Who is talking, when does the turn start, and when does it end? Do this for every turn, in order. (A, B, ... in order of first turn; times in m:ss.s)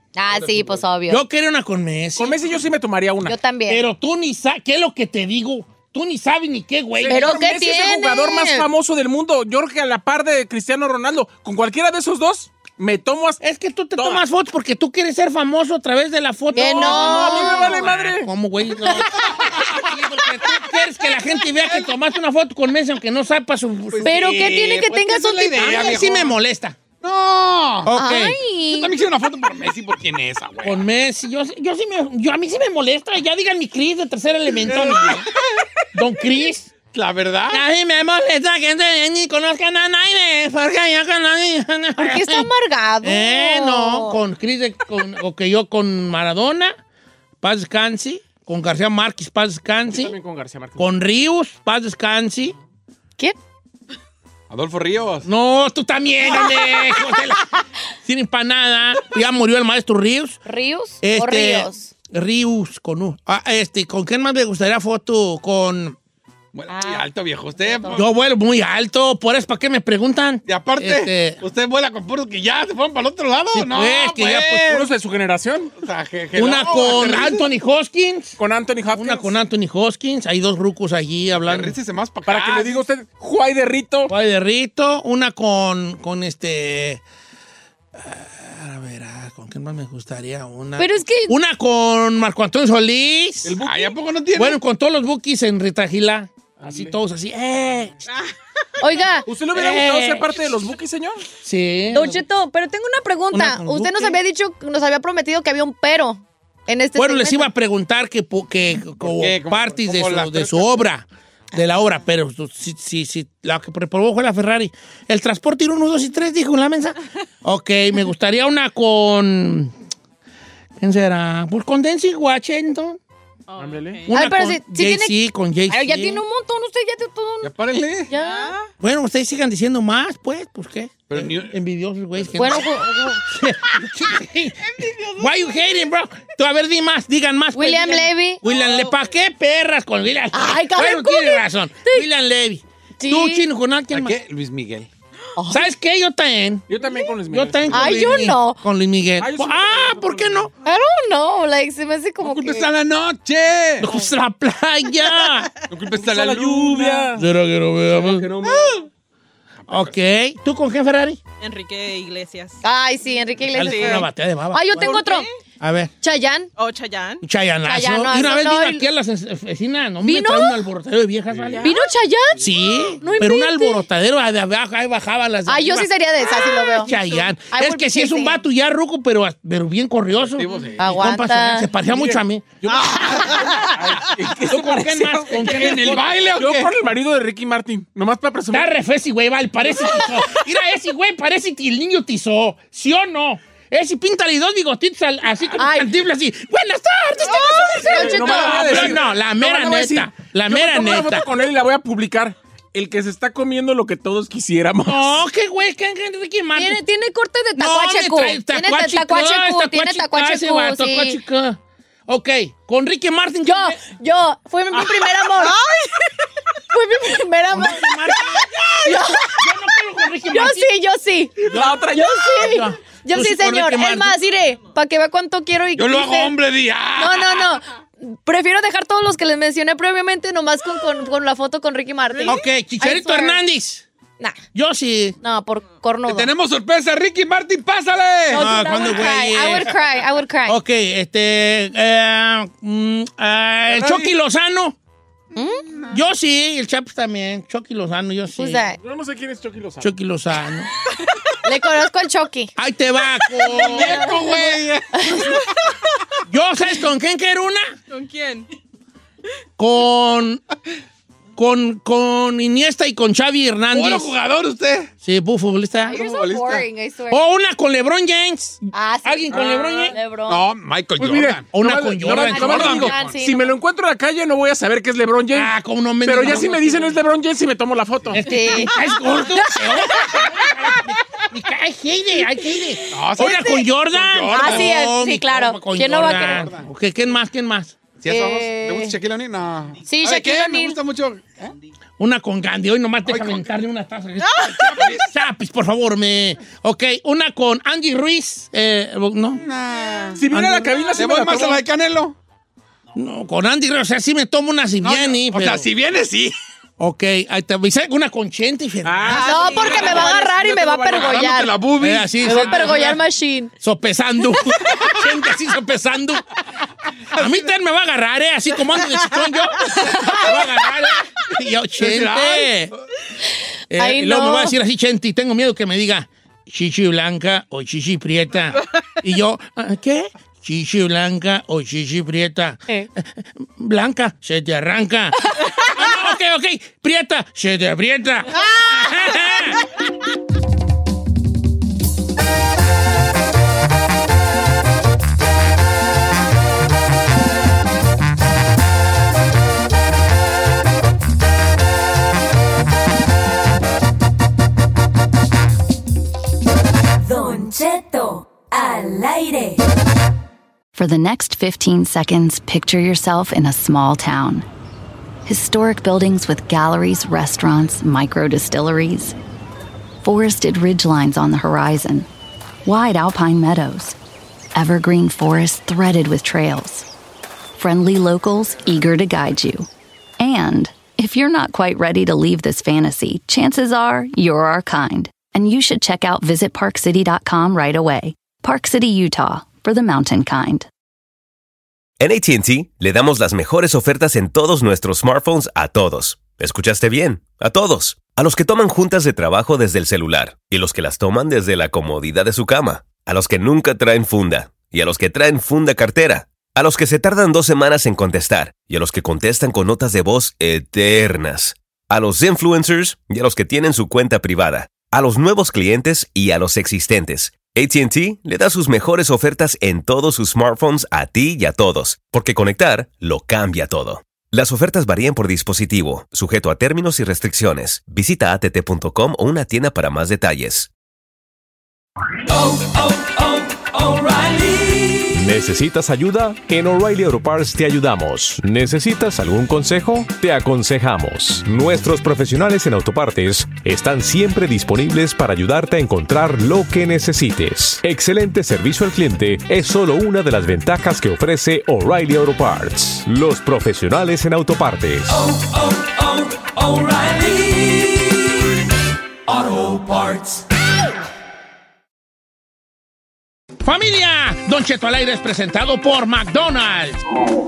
0:00.2-0:01.2 A
0:00.3-0:00.9 B
0:01.1-0:02.4 C
0:02.2-0:03.4 D
0:03.2-0:03.8 A
0:03.7-0:07.4 C
0:07.0-0:13.4 D
0:07.1-0:08.7 A
0:13.4-0:24.3 C
0:14.0-0:14.2 D
0:16.5-0:17.8 A
0:16.6-0:18.3 D
0:19.5-0:19.8 B
0:21.6-0:21.9 B
0:23.9-0:26.4 B
0:24.0-0:25.9 A
0:25.6-0:26.8 C
0:27.0-0:28.0 B
0:27.8-0:28.4 C
0:27.9-0:28.9 A
0:28.7-0:30.8 B
0:30.6-0:35.3 C
0:34.7-0:35.6 B
0:35.9-0:36.7 C
0:36.9-0:37.6 B
0:37.5-0:42.5 C
0:42.0-0:44.2 A
0:43.0-0:46.8 C
0:47.4-0:50.1 C
0:49.9-0:50.8 D
0:50.8-0:52.6 C
0:54.5-0:55.3 B
0:55.2-0:57.4 C
0:58.0-1:00.4 C
1:00.4-1:01.9 A
1:01.0-1:06.0 C
1:06.5-1:08.1 B
1:06.7-1:07.1 A
1:07.6-1:08.0 A
1:07.9-1:11.4 C
1:10.4-1:14.9 B
1:13.5-1:14.7 C
1:14.5-1:15.7 D
1:15.8-1:17.5 B
1:16.3-1:18.4 C
1:18.4-1:19.3 D
1:18.9-1:21.8 C
1:21.4-1:22.8 B
1:22.2-1:24.1 D
1:24.1-1:27.0 C
1:28.0-1:33.6 C
1:30.8-1:31.3 A
1:33.4-1:34.6 B
1:33.6-1:33.9 D
1:34.4-1:38.0 C
1:36.6-1:36.9 D
1:38.8-1:39.3 A
1:39.3-1:41.2 D
1:39.5-1:40.3 C
1:41.4-1:42.2 C
1:41.9-1:47.5 A
1:43.3-1:44.2 C
1:47.0-1:59.7 C
1:49.0-1:50.8 B
2:00.8-2:03.0 C
2:03.5-2:04.1 E
2:03.6-2:04.1 D
2:04.1-2:06.2 C
2:04.1-2:05.2 A
2:05.7-2:07.5 A
2:07.4-2:08.1 B
2:08.1-2:08.6 A
2:08.1-2:08.7 E
2:08.8-2:24.2 C
2:11.1-2:11.5 B
2:12.4-2:13.2 A
2:14.8-2:15.4 B
2:17.5-2:18.4 A
2:18.5-2:19.0 E
2:20.3-2:22.0 A
2:23.0-2:23.4 A
2:23.9-2:24.9 B
2:25.4-2:25.6 A
2:25.5-2:30.5 C
2:26.7-2:28.1 D
2:27.7-2:28.6 A
2:29.2-2:30.5 D
2:30.6-2:32.7 A
2:32.2-2:33.9 B
2:33.8-2:35.5 C
2:35.7-2:37.1 B
2:35.9-2:37.2 D
2:37.1-2:38.3 C
2:38.1-2:38.8 B
2:38.1-2:38.7 D
2:39.6-2:40.0 B
2:39.7-2:41.2 C
2:41.4-2:42.6 E
2:42.6-2:45.3 A
2:43.5-2:45.0 C
2:43.6-2:44.1 E
2:44.7-2:45.3 E
2:45.6-2:45.9 C
2:46.0-2:46.5 A
2:46.6-2:47.2 E
2:47.2-2:51.7 C
2:47.6-2:48.8 A
2:50.0-2:50.6 A
2:51.5-2:51.8 E
2:51.6-2:52.4 A
2:52.4-3:02.6 C
2:53.0-2:53.8 A
2:55.5-2:58.4 A
3:00.2-3:01.0 B
3:00.8-3:01.7 A
3:01.9-3:08.7 D
3:02.6-3:04.3 B
3:04.4-3:06.1 C
3:05.3-3:06.7 B
3:08.5-3:21.3 C
3:15.6-3:15.9 A
3:17.2-3:18.7 A
3:17.8-3:25.2 D
3:18.3-3:19.0 B
3:24.8-3:26.8 C
3:26.5-3:31.2 A
3:27.6-3:33.8 C
3:33.4-3:35.6 A
3:35.4-3:35.8 E
3:36.7-3:38.2 A
3:37.5-3:40.7 C
3:38.8-3:39.5 A
3:40.3-3:46.4 A
3:41.4-3:42.3 D
3:41.5-3:44.2 C
3:45.7-3:47.6 B
3:47.0-3:53.4 A
3:52.2-3:53.8 C
3:54.5-3:55.2 C
3:55.2-3:56.3 A
3:56.0-3:59.2 B
3:58.3-4:00.6 A
3:58.3-3:59.7 C
4:00.5-4:04.8 C
4:03.7-4:04.1 B
4:05.4-4:05.6 A
4:05.4-4:06.0 B
4:05.9-4:08.6 C
4:08.4-4:08.8 A
4:08.8-4:09.9 D
4:09.8-4:10.7 C
4:11.4-4:12.5 A
4:12.6-4:14.1 C
4:13.4-4:15.4 B
4:13.5-4:15.4 A
4:16.3-4:17.7 C
4:17.9-4:18.5 E
4:19.6-4:20.4 C
4:21.4-4:24.1 C
4:23.7-4:24.9 B
4:25.0-4:26.0 C
4:25.9-4:27.3 A
4:25.9-4:26.7 B
4:27.1-4:30.0 C
4:28.7-4:30.5 A
4:29.3-4:31.5 B
4:31.0-4:38.2 D
4:31.5-4:32.9 C
4:32.0-4:33.2 B
4:32.1-4:33.5 A
4:35.3-4:36.9 C
4:38.1-4:47.8 C
4:38.2-4:38.7 A
4:42.9-4:44.9 B
4:44.3-4:46.5 A
4:45.9-4:46.7 B
4:48.0-4:51.5 B
4:48.1-4:49.0 A
4:49.8-4:50.8 A
4:52.0-4:59.4 C
4:53.0-4:53.5 B
4:54.4-4:55.1 B
4:59.4-5:00.2 B
5:00.2-5:01.6 D
5:00.3-5:00.8 C
5:01.0-5:02.1 B
5:02.9-5:05.7 C
5:04.8-5:06.3 B
5:06.8-5:09.4 C
5:08.8-5:11.2 D
5:09.1-5:11.6 A
5:09.3-5:10.0 E
5:10.9-5:13.0 B
5:11.8-5:12.9 C
5:12.2-5:13.5 A
5:13.6-5:16.2 C
5:17.1-5:22.7 C
5:21.8-5:22.6 B
5:23.7-5:39.6 C
5:23.8-5:24.5 A
5:57.0-5:59.6 F
6:00.8-6:04.4 G
6:05.3-6:09.1 G
6:10.0-6:12.0 G
6:12.6-6:13.9 G
6:14.6-6:16.8 G
6:17.6-6:19.7 G
6:20.2-6:30.6 G
6:32.0-7:10.7 H
7:15.1-7:35.3 I
7:43.6-7:47.0 C